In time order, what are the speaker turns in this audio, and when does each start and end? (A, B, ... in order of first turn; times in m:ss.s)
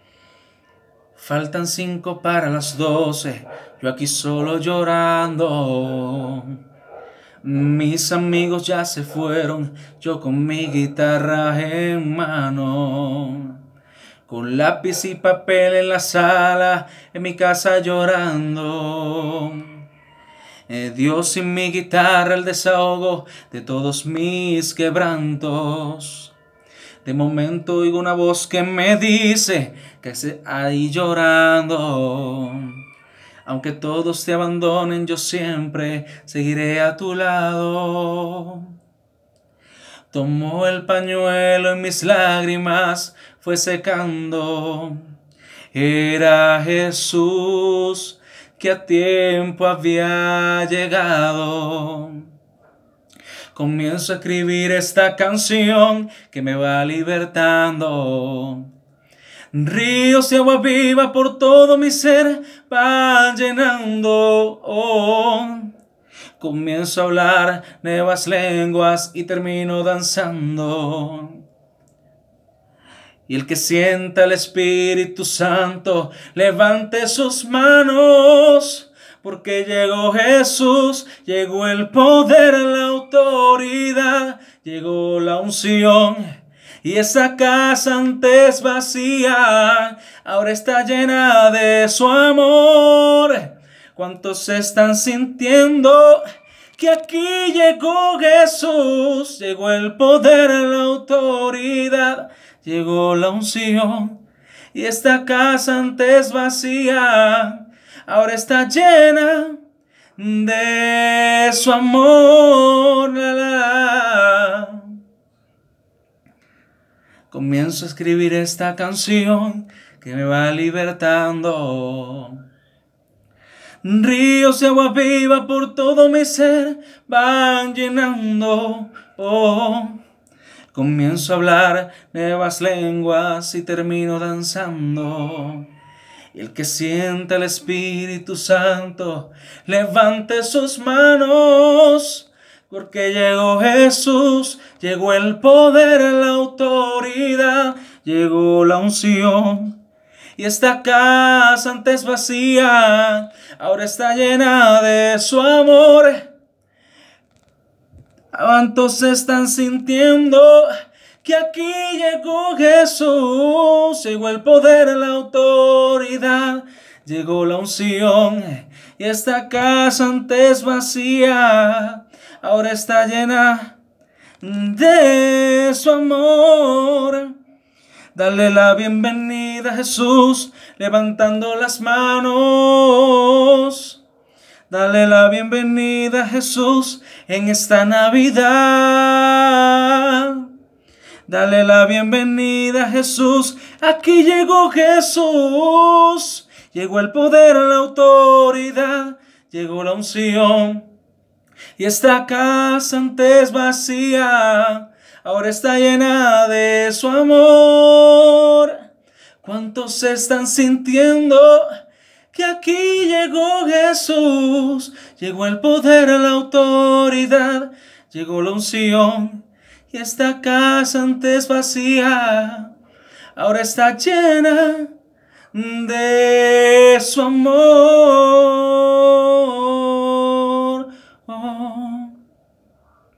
0:01.2-0:06.6 A
0:07.4-0:13.6 A
0:14.3-0:19.8 A
0:20.7-0:26.3 A
0:27.0-0:32.8 A
0:33.4-0:38.7 A
0:40.1-0:45.1 A
0:45.7-0:52.3 A
0:53.5-0:58.7 A
0:59.5-1:05.7 A
1:06.4-1:11.4 A
1:13.3-1:36.2 A
1:36.8-1:44.2 A
1:44.7-1:49.6 A
1:50.2-1:54.9 A
1:57.3-2:02.4 A
2:03.8-2:10.0 A
2:10.7-2:15.7 A
2:16.3-2:29.8 A
2:30.4-2:36.2 A
2:38.3-2:53.7 A
2:54.4-2:57.3 A
2:58.1-3:04.0 A
3:04.7-3:10.5 A
3:11.3-3:20.9 A
3:21.8-3:28.8 A
3:29.4-3:31.7 A
3:32.3-3:42.7 A
3:43.4-3:44.9 A
3:45.5-3:52.1 A